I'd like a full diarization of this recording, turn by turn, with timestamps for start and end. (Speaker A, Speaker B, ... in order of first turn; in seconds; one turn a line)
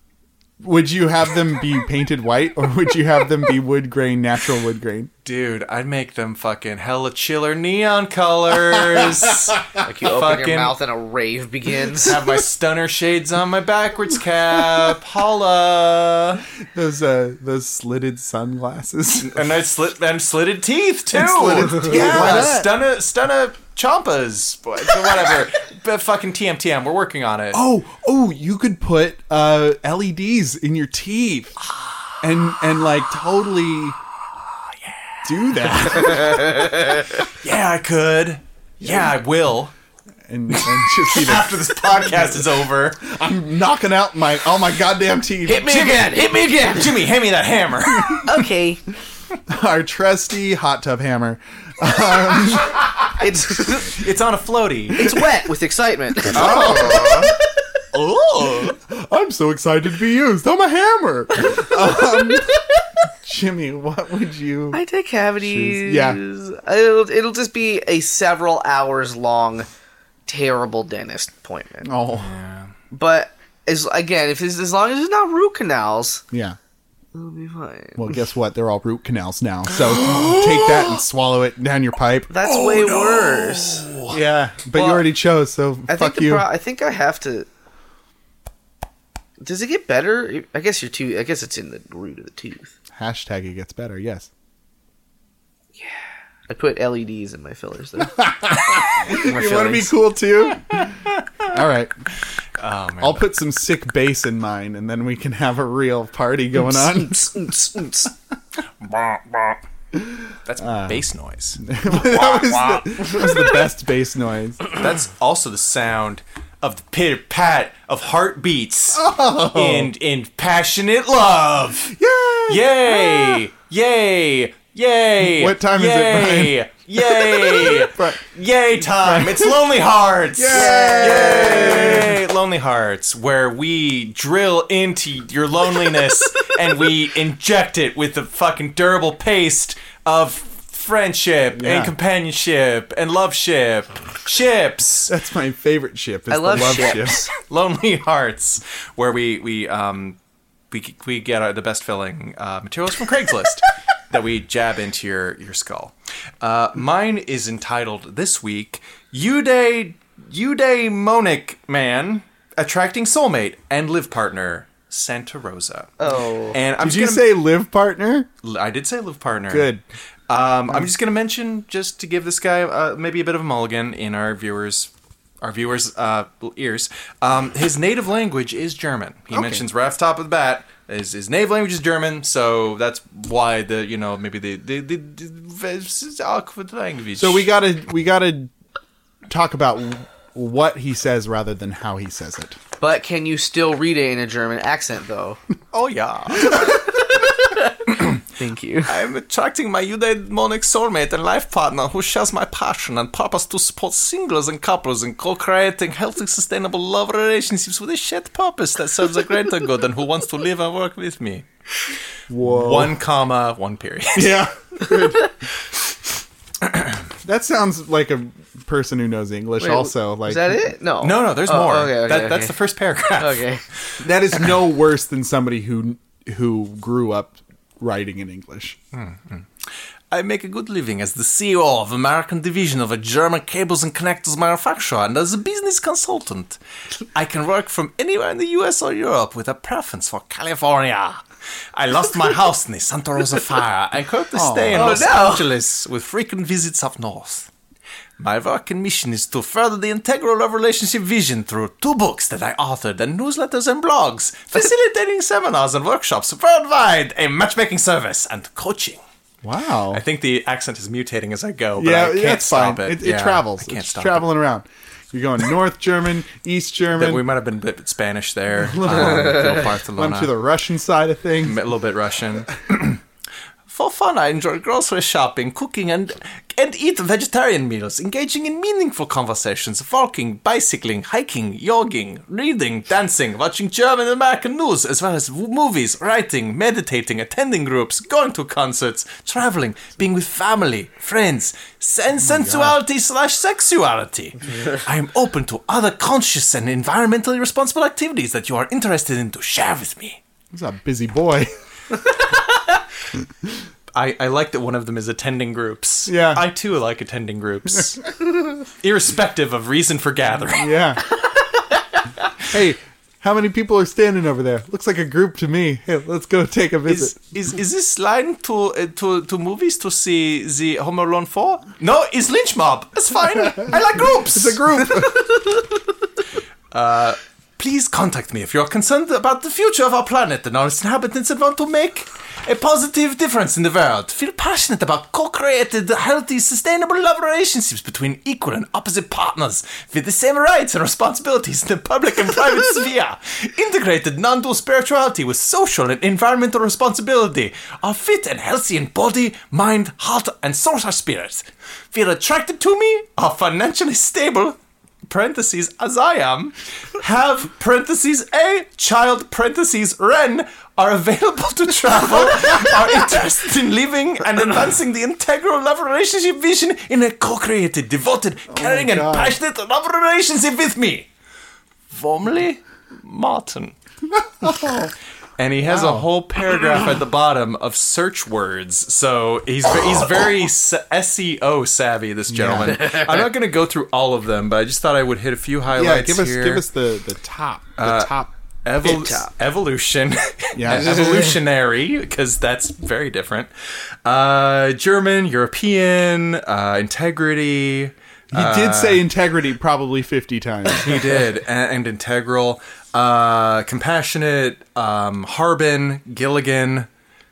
Speaker A: 0.6-5.1
Speaker B: 5.2-10.8
Speaker C: 9.8-12.2
Speaker B: 12.0-16.4
Speaker A: 16.7-19.4
Speaker B: 19.1-27.6
Speaker A: 21.1-22.7
Speaker C: 21.7-22.3
Speaker A: 27.5-31.6
Speaker A: 32.2-34.0
Speaker B: 34.9-39.7
Speaker A: 35.2-36.7
Speaker C: 36.1-36.9
Speaker A: 38.8-39.1
Speaker A: 40.3-45.9
Speaker B: 40.5-43.0
Speaker C: 45.5-47.1
Speaker B: 45.6-48.5
Speaker C: 48.1-48.8
Speaker A: 49.5-53.1
Speaker C: 53.2-54.0
Speaker B: 53.9-55.1
Speaker C: 55.0-57.4
Speaker A: 56.2-57.4
Speaker B: 56.3-57.3
Speaker B: 57.9-58.8
Speaker A: 58.5-64.8
Speaker C: 61.5-62.5
Speaker C: 64.7-69.7
Speaker A: 65.4-66.2
Speaker C: 70.3-71.9
Speaker A: 71.8-72.3
Speaker B: 72.1-72.7
Speaker C: 72.9-76.2
Speaker A: 76.3-76.6
Speaker C: 77.1-78.2
Speaker A: 78.0-82.3
Speaker B: 79.8-80.9
Speaker C: 82.3-83.9
Speaker B: 82.4-84.2
Speaker A: 84.1-86.5
Speaker C: 84.7-85.0
Speaker C: 85.9-87.5
Speaker C: 89.4-92.7
Speaker A: 92.9-94.3
Speaker C: 96.5-99.9
Speaker A: 98.1-101.9
Speaker B: 100.8-101.2
Speaker B: 102.6-103.2
Speaker A: 103.0-107.5
Speaker C: 106.6-108.1
Speaker B: 108.8-109.6
Speaker A: 109.9-111.0
Speaker B: 110.5-112.8
Speaker A: 111.6-114.6
Speaker B: 114.7-145.1
Speaker A: 118.9-119.9
Speaker A: 121.9-123.4
Speaker A: 125.2-128.2
Speaker A: 128.8-129.6
Speaker A: 130.4-132.2
Speaker C: 130.5-132.1
Speaker A: 141.6-141.9
Speaker A: 145.1-147.2
Speaker C: 146.3-147.3
Speaker B: 147.4-150.2
Speaker B: 150.7-165.9
Speaker C: 166.0-166.6
Speaker B: 166.5-167.3
Speaker A: 166.8-168.3
Speaker B: 168.4-169.7
Speaker A: 169.5-169.8
Speaker B: 170.3-187.5
Speaker A: 179.3-179.6
Speaker A: 187.2-188.5
Speaker A: 189.3-192.6
Speaker C: 192.8-195.4
Speaker B: 195.7-196.9
Speaker C: 196.5-198.9
Speaker B: 197.9-198.2
Speaker B: 198.9-214.5
Speaker A: 212.3-213.0
Speaker A: 214.2-215.3
Speaker C: 214.9-215.3
Speaker B: 216.6-217.0
Speaker A: 217.2-220.7
Speaker C: 219.6-222.6
Speaker B: 221.0-223.4
Speaker C: 223.1-223.6
Speaker A: 224.0-228.8
Speaker B: 228.9-229.5
Speaker B: 230.1-236.6
Speaker B: 237.1-247.5
Speaker A: 244.3-245.1
Speaker C: 244.7-245.5
Speaker B: 248.2-259.0
Speaker A: 259.4-260.0
Speaker B: 259.9-264.3
Speaker A: 261.8-267.2
Speaker B: 266.9-270.3
Speaker A: 268.6-271.6
Speaker B: 271.4-273.0
Speaker B: 273.7-300.2
Speaker A: 292.2-292.8
Speaker A: 300.5-301.5
Speaker B: 303.9-308.1
Speaker A: 306.1-306.4
Speaker B: 308.7-310.8
Speaker A: 310.5-311.0
Speaker A: 312.4-317.2
Speaker B: 316.9-324.7
Speaker A: 323.6-325.3
Speaker B: 326.7-371.1
Speaker A: 368.5-369.4
Speaker B: 371.9-373.8
Speaker A: 374.1-374.9
Speaker B: 375.4-386.6
Speaker A: 375.6-376.1
Speaker A: 382.3-382.9
Speaker A: 385.7-388.3
Speaker B: 387.8-399.1
Speaker C: 388.9-389.3
Speaker A: 390.6-391.1
Speaker C: 390.9-391.3
Speaker A: 398.3-401.2
Speaker B: 400.7-406.9